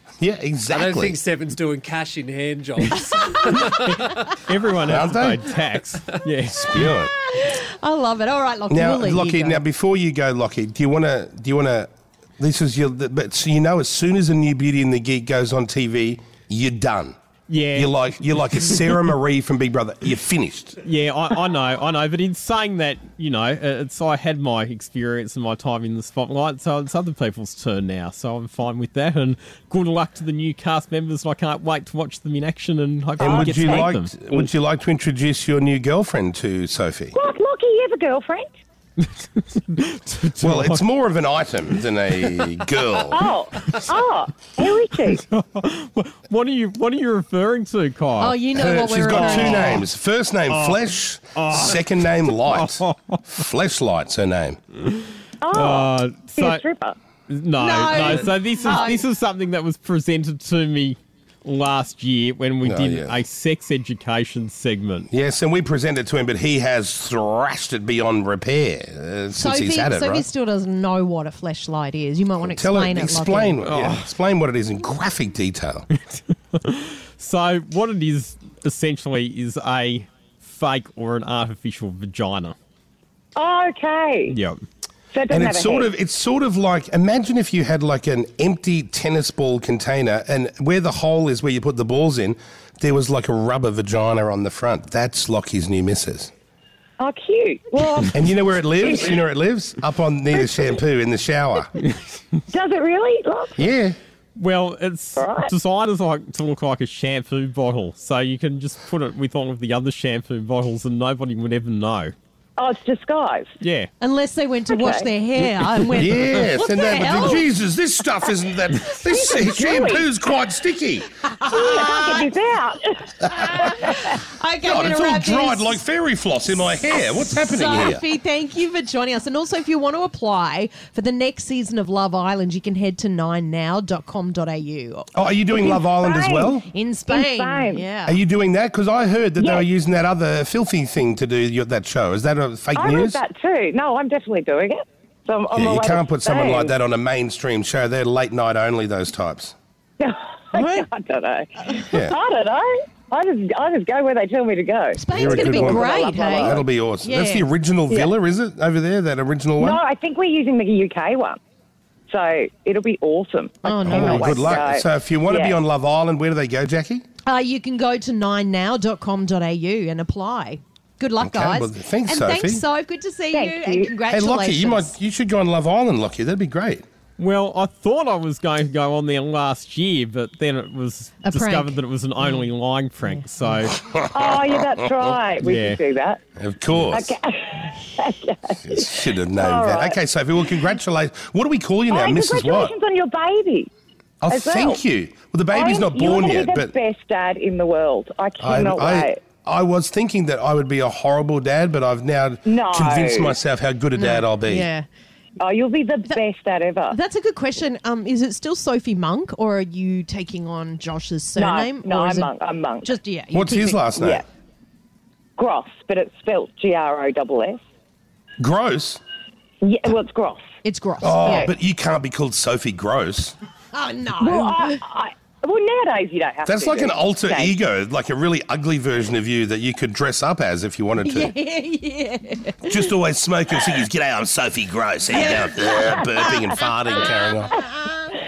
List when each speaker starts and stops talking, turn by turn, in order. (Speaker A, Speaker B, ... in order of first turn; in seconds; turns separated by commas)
Speaker A: 0.2-1.2, Speaker B: 0.7-4.3, Speaker C: 3.8-6.9, Speaker A: 4.9-5.4, Speaker A: 6.5-7.1, Speaker D: 7.1-9.6, Speaker A: 8.7-17.1, Speaker C: 17.5-18.8, Speaker A: 17.7-20.8, Speaker C: 20.8-34.5, Speaker A: 33.2-37.1, Speaker E: 33.2-33.8, Speaker E: 37.1-38.5, Speaker C: 39.0-40.8, Speaker A: 40.4-43.2, Speaker E: 43.1-45.2, Speaker C: 45.0-48.4, Speaker D: 48.2-49.9, Speaker A: 48.5-54.6, Speaker C: 49.1-49.8, Speaker C: 50.5-53.2, Speaker C: 54.8-56.6, Speaker E: 55.4-57.0, Speaker C: 57.3-65.1, Speaker D: 57.6-59.0, Speaker A: 62.6-63.2, Speaker A: 65.1-70.2, Speaker D: 69.3-73.6, Speaker A: 72.4-75.9, Speaker C: 73.6-74.1, Speaker C: 76.5-82.5, Speaker E: 83.3-84.3, Speaker C: 84.3-84.6, Speaker E: 85.1-85.9, Speaker A: 85.3-96.3, Speaker E: 97.0-98.1, Speaker A: 98.1-101.7, Speaker E: 98.8-99.2, Speaker E: 100.3-100.8, Speaker E: 102.5-103.7, Speaker A: 103.6-104.0, Speaker C: 104.3-112.1, Speaker E: 105.2-105.5, Speaker E: 112.6-113.5, Speaker C: 113.6-113.9, Speaker D: 114.0-117.5, Speaker E: 114.7-115.1, Speaker A: 115.9-121.1, Speaker E: 119.0-120.1, Speaker D: 121.2-122.3, Speaker E: 121.5-123.9, Speaker D: 123.3-125.8, Speaker A: 124.6-128.0, Speaker D: 127.2-135.1, Speaker A: 135.1-136.7, Speaker E: 135.5-136.6, Speaker D: 136.7-138.2, Speaker E: 137.1-137.8, Speaker A: 138.1-143.2, Speaker E: 139.4-139.6, Speaker E: 142.8-146.7, Speaker A: 145.5-149.5, Speaker E: 150.0-156.6, Speaker D: 150.5-150.9, Speaker D: 154.9-157.5, Speaker A: 155.1-159.8, Speaker E: 159.6-161.4, Speaker E: 162.1-165.6, Speaker D: 163.6-164.6, Speaker A: 163.8-167.0, Speaker D: 167.2-174.9, Speaker A: 171.2-172.6, Speaker E: 173.3-173.9, Speaker A: 174.1-176.8, Speaker C: 177.2-183.8, Speaker D: 181.2-182.5, Speaker A: 183.8-184.5, Speaker E: 184.1-186.2, Speaker C: 185.4-185.8, Speaker A: 186.4-187.1, Speaker E: 186.9-190.0, Speaker A: 188.6-192.8, Speaker E: 191.9-193.7, Speaker A: 194.2-196.7, Speaker E: 194.3-194.8, Speaker E: 195.5-199.2, Speaker A: 198.4-204.7, Speaker E: 202.4-203.3, Speaker D: 203.9-204.9, Speaker E: 205.4-206.9, Speaker D: 206.9-212.3, Speaker E: 211.4-212.9, Speaker D: 212.8-213.9, Speaker A: 213.3-214.2, Speaker E: 214.0-214.2, Speaker E: 215.4-217.6, Speaker A: 218.4-219.0, Speaker E: 219.6-220.4, Speaker D: 220.6-221.5, Speaker A: 221.0-223.3, Speaker D: 223.7-224.8, Speaker E: 224.2-227.5, Speaker A: 226.4-231.3, Speaker D: 231.0-232.9, Speaker A: 232.6-237.6, Speaker D: 235.1-238.0